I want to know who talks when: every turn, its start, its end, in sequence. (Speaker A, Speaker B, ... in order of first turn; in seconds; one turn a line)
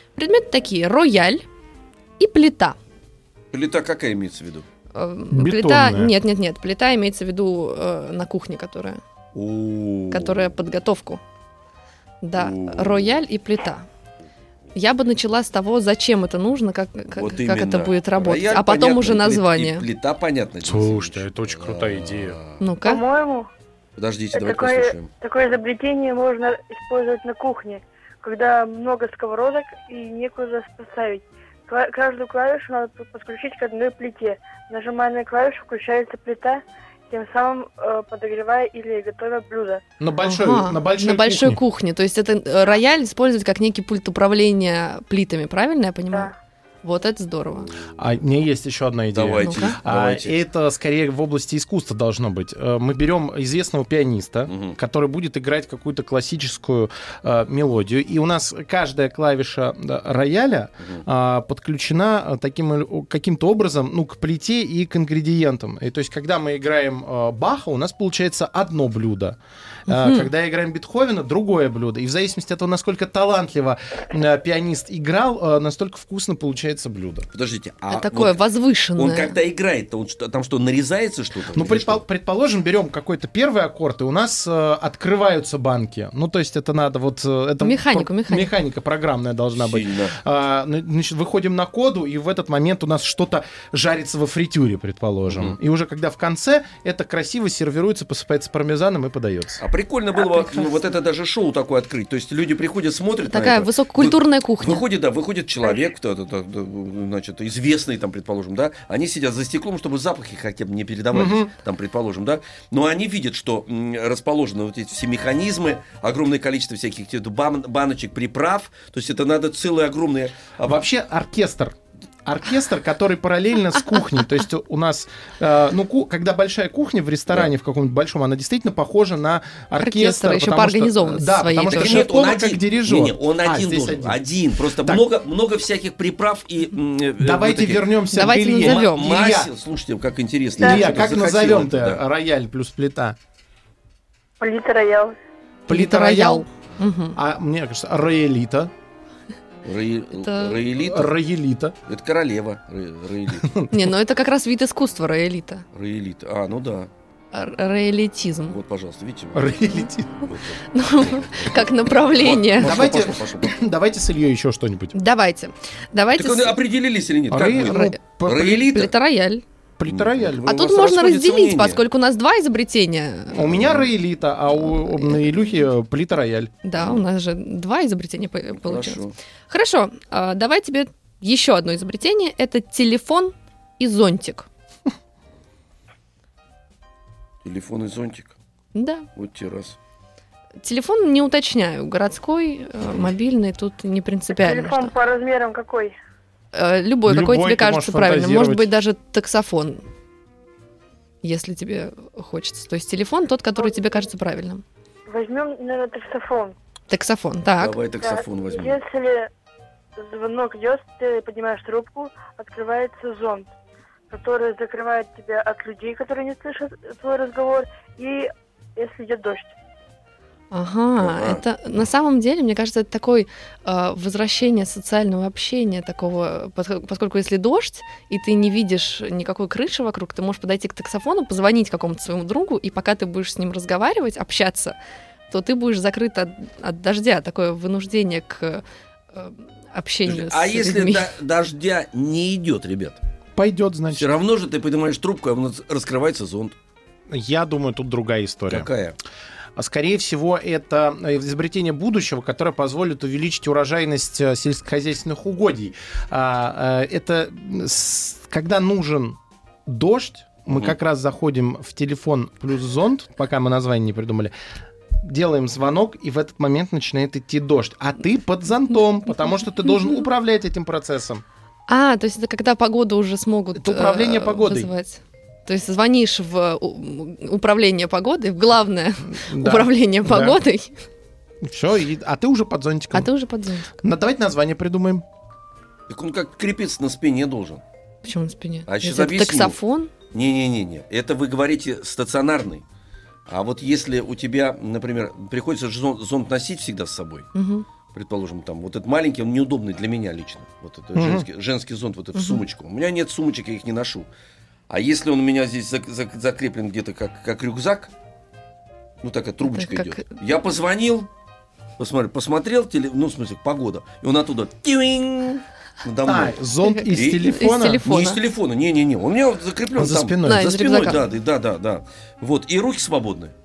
Speaker A: 0.2-1.4
Speaker A: 2.2-2.8
Speaker B: 3.5-4.7
Speaker A: 4.9-9.0
Speaker C: 5.3-6.1
Speaker B: 9.3-10.5
Speaker A: 10.1-11.2
Speaker A: 12.2-13.8
Speaker B: 12.4-13.1
Speaker A: 14.8-19.8
Speaker B: 17.1-22.6
Speaker C: 20.6-22.4
Speaker A: 22.6-23.0
Speaker D: 22.8-23.5
Speaker B: 24.0-25.1
Speaker D: 24.3-39.8
Speaker C: 40.0-41.6
Speaker A: 40.2-46.3
Speaker A: 46.8-47.7
Speaker C: 48.0-77.3
Speaker B: 49.1-50.4
Speaker A: 49.4-49.7
Speaker B: 54.5-54.8
Speaker A: 69.9-70.3
Speaker B: 77.3-78.4
Speaker A: 77.9-79.3
Speaker B: 79.0-82.0
Speaker C: 81.5-99.6
Speaker A: 87.6-88.5
Speaker B: 89.5-90.2
Speaker B: 95.3-95.5
Speaker B: 99.6-120.8
Speaker A: 103.3-104.8
Speaker C: 111.1-111.5
Speaker C: 120.7-135.0
Speaker A: 129.8-132.0
Speaker B: 131.7-137.9
Speaker C: 137.2-139.5
Speaker A: 138.1-139.1
Speaker B: 138.6-142.0
Speaker C: 140.6-143.2
Speaker D: 144.4-145.2
Speaker C: 145.7-146.5
Speaker A: 145.7-147.2
Speaker C: 147.1-148.7
Speaker B: 149.6-151.1
Speaker A: 150.2-150.6
Speaker C: 150.7-151.8
Speaker B: 151.9-153.5
Speaker C: 153.4-153.7
Speaker A: 153.7-155.6
Speaker B: 155.7-156.9
Speaker A: 157.3-158.6
Speaker B: 158.5-163.5
Speaker C: 159.3-160.2
Speaker A: 160.7-162.7
Speaker C: 162.6-164.9
Speaker A: 164.9-166.6
Speaker B: 166.2-168.9
Speaker C: 167.3-168.9
Speaker A: 167.6-168.0
Speaker A: 168.7-169.4
Speaker C: 169.8-170.5
Speaker B: 169.9-171.8
Speaker A: 170.4-173.4
Speaker C: 173.3-176.5
Speaker B: 173.5-173.8
Speaker A: 174.7-175.2
Speaker A: 176.6-184.5
Speaker B: 178.6-179.1
Speaker B: 187.4-188.3
Speaker A: 188.7-189.1
Speaker B: 189.2-189.8
Speaker A: 190.6-194.9
Speaker D: 194.3-195.9
Speaker A: 196.5-199.8
Speaker C: 197.1-198.7
Speaker A: 201.2-204.6
Speaker D: 203.6-203.8
Speaker D: 205.1-206.6
Speaker A: 206.9-207.8
Speaker B: 207.6-208.8
Speaker D: 208.0-209.3
Speaker D: 210.0-213.5
Speaker D: 214.1-219.5
Speaker A: 220.5-234.8
Speaker B: 221.0-221.4
Speaker A: 235.3-238.6
Speaker A: 239.1-241.1
Speaker B: 240.1-243.0
Speaker C: 243.3-244.1
Speaker B: 243.9-246.5
Speaker C: 247.1-248.7
Speaker B: 248.5-249.0
Speaker C: 249.6-264.3
Speaker B: 260.5-260.7
Speaker C: 265.0-271.2
Speaker A: 271.7-280.8
Speaker C: 273.5-274.7
Speaker C: 279.1-280.4
Speaker C: 281.4-283.1
Speaker A: 282.9-283.7
Speaker C: 283.8-285.0
Speaker B: 285.9-287.6
Speaker A: 288.0-289.9
Speaker B: 288.7-289.6
Speaker B: 290.1-292.6
Speaker B: 293.3-297.3
Speaker A: 297.3-297.6
Speaker B: 297.9-304.1
Speaker C: 300.9-301.3
Speaker A: 302.1-302.4
Speaker B: 304.7-307.9
Speaker B: 309.0-311.1
Speaker A: 309.4-310.1
Speaker B: 311.8-316.4
Speaker C: 316.0-317.9
Speaker A: 316.6-318.2
Speaker B: 316.9-323.3
Speaker C: 319.8-320.6
Speaker A: 320.2-321.1